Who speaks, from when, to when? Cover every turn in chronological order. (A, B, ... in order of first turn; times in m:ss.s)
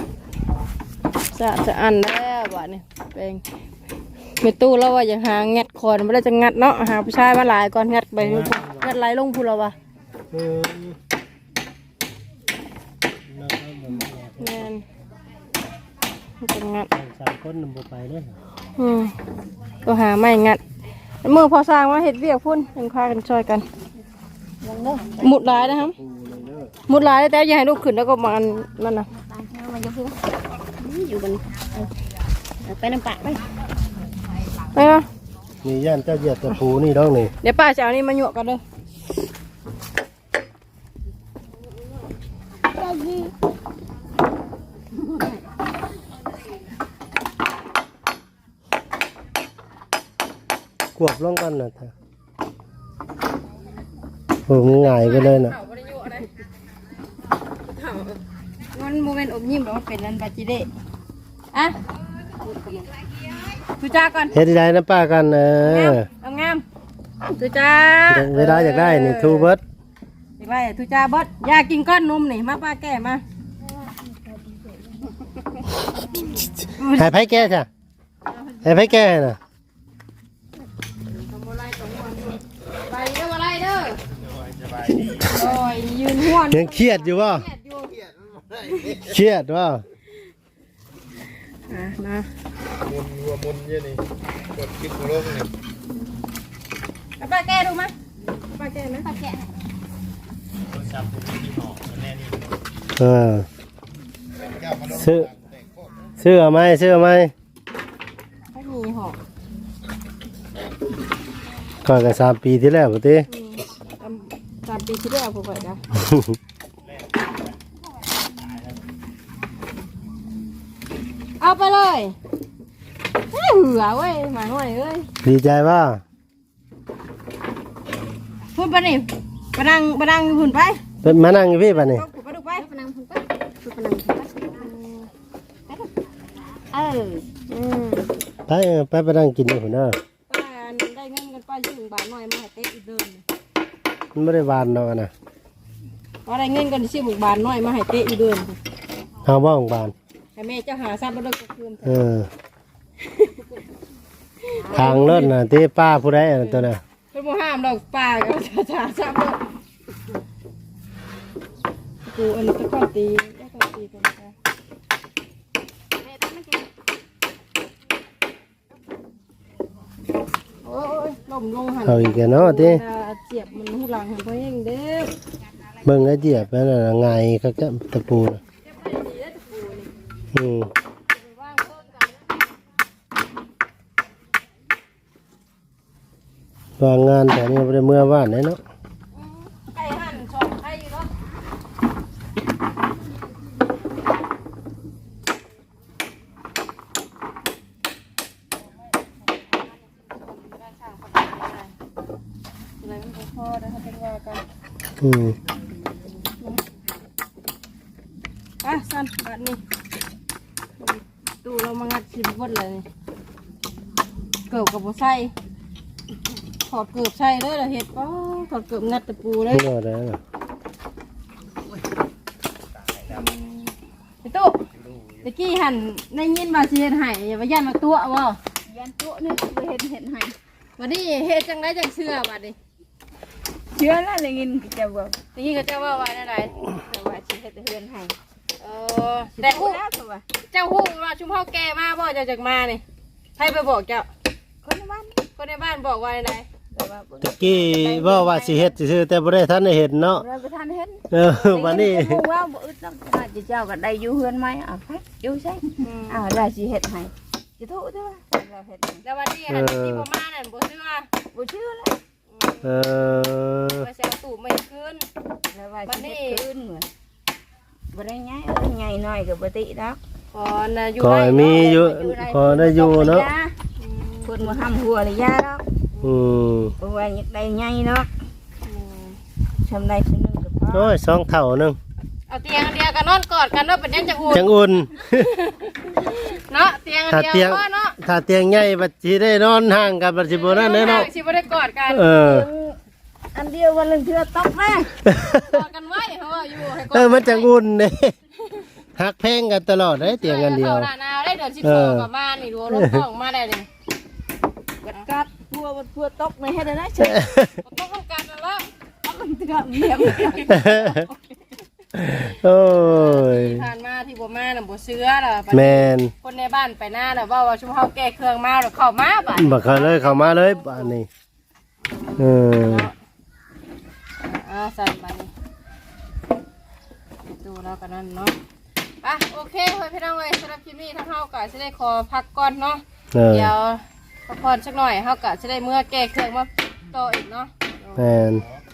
0:01.3-0:03.4 A
0:04.4-0:09.7 A
0:08.2-0:08.9 B
0:10.3-0:11.0 B
0:13.3-0:14.7 B
0:14.4-0:14.8 A
0:16.4-0:16.9 A
0:16.9-0:18.4 B
0:18.8-0:19.1 A
0:19.8-0:20.6 A
0:21.2-0:23.6 A
0:24.6-0:25.3 C
0:25.2-0:25.9 A
0:25.2-0:26.7 B
0:26.9-0:29.1 A
0:29.1-0:30.2 C
0:30.7-0:31.9 C
0:32.6-0:33.4 C
0:34.7-0:35.0 A
0:35.6-0:37.3 B
0:37.4-0:38.6 A
0:42.6-0:43.3 C
0:51.0-0:51.9 B
0:54.5-0:55.6 B
0:54.5-0:56.3 A
0:57.7-0:58.2 A
0:58.7-1:00.7 A
1:02.4-1:03.3 C
1:03.8-1:04.4 A
1:04.3-1:06.1 B
1:05.6-1:06.6 A
1:07.4-1:09.5 A
1:08.1-1:09.6 B
1:10.4-1:13.2 A
1:13.9-1:15.0 C
1:16.8-1:17.5 A
1:16.8-1:17.7 B
1:18.3-1:18.8 A
1:18.6-1:19.4 B
1:21.2-1:24.0 A
1:24.0-1:25.4 D
1:25.2-1:26.8 A
1:26.4-1:27.5 B
1:26.5-1:26.9 C
1:27.4-1:28.0 A
1:28.7-1:29.8 B
1:31.7-1:32.3 A
1:32.8-1:35.5 D
1:37.2-1:37.9 A
1:38.5-1:39.1 A
1:39.0-1:39.4 C
1:40.6-1:42.5 D
1:43.0-1:43.4 B
1:44.4-1:46.0 D
1:44.9-1:45.3 B
1:46.2-1:47.3 B
1:48.5-1:49.2 A
1:51.8-1:53.3 B
1:53.3-1:55.8 A
1:55.9-1:56.4 B
1:56.8-1:57.6 D
1:58.2-1:58.9 D
2:01.4-2:02.1 A
2:03.3-2:05.1 A
2:05.2-2:06.0 B
2:08.5-2:10.8 A
2:11.0-2:12.0 B
2:11.8-2:12.6 A
2:12.5-2:14.7 C
2:14.6-2:15.1 A
2:16.5-2:17.2 C
2:17.5-2:18.1 A
2:18.5-2:20.0 B
2:20.3-2:23.2 A
2:24.1-2:25.1 B
2:26.2-2:28.6 A
2:29.2-2:29.9 B
2:30.4-2:32.0 A
2:31.8-2:32.3 B
2:33.0-2:33.3 A
2:34.4-2:35.3 A
2:34.6-2:35.0 C
2:34.7-2:36.8 B
2:36.4-2:39.4 A
2:42.0-2:44.3 A
2:46.0-2:46.6 C
2:50.6-2:55.1 A
2:51.8-2:52.8 B
2:55.8-2:58.4 B
2:58.6-2:59.9 A
3:00.3-3:00.7 B
3:01.2-3:02.1 A
3:06.8-3:08.6 B
3:09.1-3:11.1 A
3:19.4-3:21.7 A
3:22.8-3:24.4 A
3:25.0-3:25.4 B
3:28.6-3:29.6 A
3:30.9-3:32.8 A
3:34.5-3:35.3 A
3:36.7-3:39.6 A
3:39.5-3:40.2 B
3:42.7-3:43.3 D
3:44.2-3:44.6 A
3:44.7-3:45.3 D
3:45.2-3:48.4 A
3:48.6-3:50.4 C
3:50.8-3:52.6 A
3:53.7-3:55.2 C
3:55.3-3:56.5 A
3:56.8-3:58.1 C
3:58.6-3:59.8 A
3:59.4-4:00.2 C
4:00.5-4:02.8 A
4:03.4-4:04.1 A
4:04.6-4:05.2 C
4:05.4-4:06.4 A
4:06.7-4:08.7 C
4:07.2-4:10.2 B
4:10.2-4:19.0 C
4:11.1-4:12.2 B
4:15.8-4:16.3 A
4:19.0-4:21.1 A
4:19.5-4:20.0 B
4:21.3-4:22.0 C
4:22.3-4:22.6 A
4:22.6-4:23.9 B
4:23.7-4:25.1 A
4:25.5-4:26.9 C
4:25.8-4:26.4 A
4:27.9-4:30.0 C
4:30.3-4:31.6 A
4:31.0-4:33.3 B
4:31.3-4:33.5 C
4:33.8-4:34.6 A
4:34.2-4:35.6 C
4:36.0-4:36.7 B
4:36.8-4:38.1 C
4:38.6-4:39.2 A
4:39.6-4:40.9 C
4:40.7-4:41.8 B
4:42.3-4:48.0 A
4:44.3-4:45.3 B
4:47.1-4:51.1 B
4:50.3-4:52.0 A
4:51.9-4:52.5 B
4:52.0-4:52.8 C
4:53.3-4:54.9 C
4:55.0-4:55.6 B
4:55.2-4:57.5 A
4:56.8-4:58.1 B
4:58.9-5:00.9 B
5:00.0-5:03.7 A
5:01.6-5:02.1 B
5:02.7-5:03.0 B
5:04.8-5:07.3 C
5:07.0-5:07.6 B
5:07.6-5:08.7 A
5:09.0-5:11.2 C
5:10.5-5:11.0 B
5:11.9-5:13.7 B
5:12.6-5:20.9 A
5:15.5-5:16.1 B
5:19.4-5:21.1 B
5:21.8-5:22.9 A
5:22.2-5:22.9 B
5:24.2-5:25.3 A
5:27.3-5:28.4 A
5:29.0-5:38.3 A
5:33.1-5:33.5 B
5:38.0-5:38.4 B